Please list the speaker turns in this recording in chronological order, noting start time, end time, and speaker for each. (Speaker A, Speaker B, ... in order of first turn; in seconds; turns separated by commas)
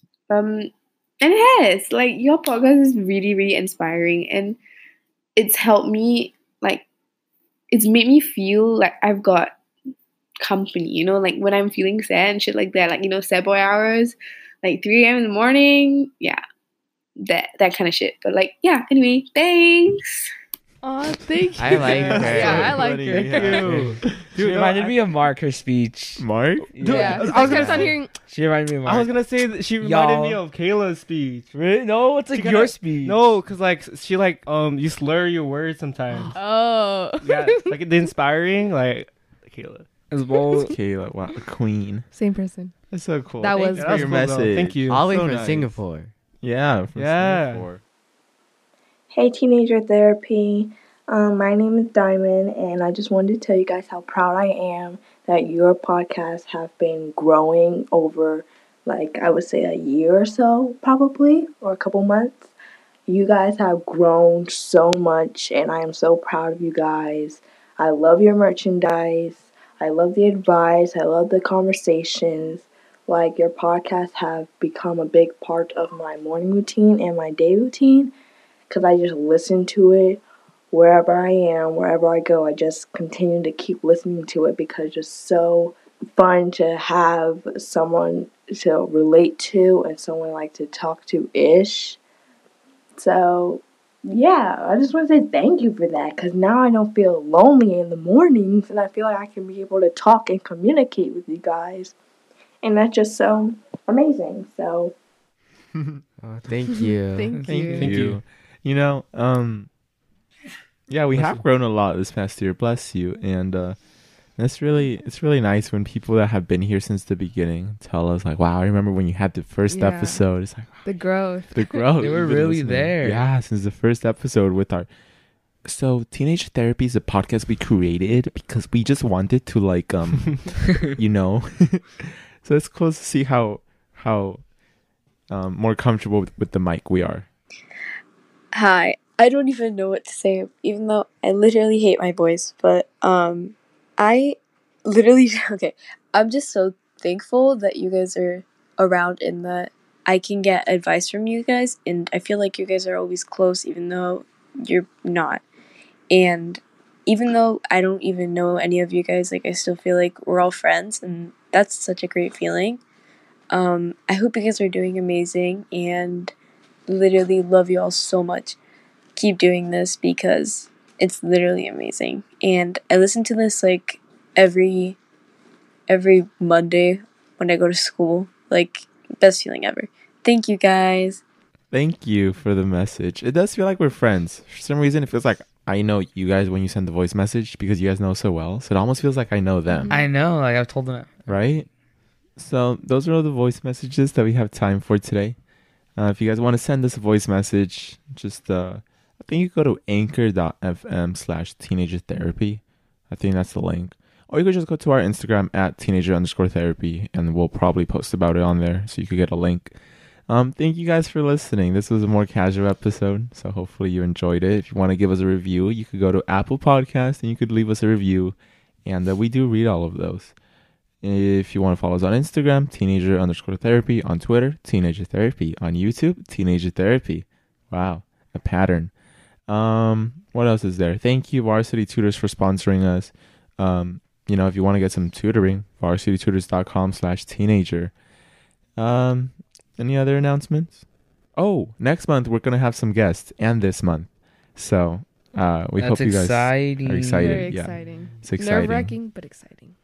Speaker A: 0.3-4.6, Speaker A: 5.4-6.9, Speaker A: 7.7-9.5, Speaker A: 10.4-16.4, Speaker A: 17.2-20.3, Speaker B: 20.8-23.7, Speaker C: 21.6-22.8, Speaker D: 21.8-24.2, Speaker E: 22.0-22.6, Speaker F: 23.1-29.1, Speaker E: 23.2-25.0, Speaker D: 26.2-26.7, Speaker E: 26.8-28.0, Speaker B: 26.9-28.1, Speaker E: 28.9-31.5, Speaker F: 29.8-30.4, Speaker F: 31.5-33.4, Speaker E: 32.3-36.3, Speaker B: 36.3-37.8, Speaker E: 37.2-39.9, Speaker F: 40.1-40.7, Speaker D: 40.6-42.1, Speaker B: 42.1-42.8, Speaker D: 42.9-45.7, Speaker B: 43.4-44.2, Speaker E: 43.5-45.5, Speaker C: 44.9-46.1, Speaker D: 46.4-47.8, Speaker E: 47.0-47.7, Speaker G: 49.1-62.5, Speaker G: 63.1-78.1, Speaker G: 78.7-80.2, Speaker G: 80.7-92.0, Speaker G: 93.0-101.9, Speaker G: 102.6-104.9, Speaker C: 106.2-107.4, Speaker B: 107.1-108.0, Speaker D: 107.5-109.7, Speaker E: 107.7-108.2, Speaker D: 110.9-113.8, Speaker E: 111.1-111.4, Speaker D: 114.4-120.9, Speaker B: 119.7-120.2, Speaker B: 120.8-122.2, Speaker D: 121.5-124.9, Speaker F: 122.0-123.2, Speaker D: 125.7-134.4, Speaker D: 135.3-137.3, Speaker H: 138.5-155.4, Speaker H: 156.1-162.8, Speaker H: 163.5-166.3, Speaker H: 166.9-168.6, Speaker H: 169.2-175.0, Speaker H: 175.9-181.2, Speaker D: 181.7-190.0, Speaker B: 189.7-190.0, Speaker F: 189.9-191.3, Speaker D: 191.3-191.7, Speaker D: 192.4-195.4, Speaker D: 196.0-209.8, Speaker D: 210.3-220.3, Speaker D: 221.0-228.9, Speaker D: 229.5-237.9, Speaker D: 238.8-240.8, Speaker D: 241.4-249.0, Speaker F: 245.8-247.5, Speaker B: 247.2-249.8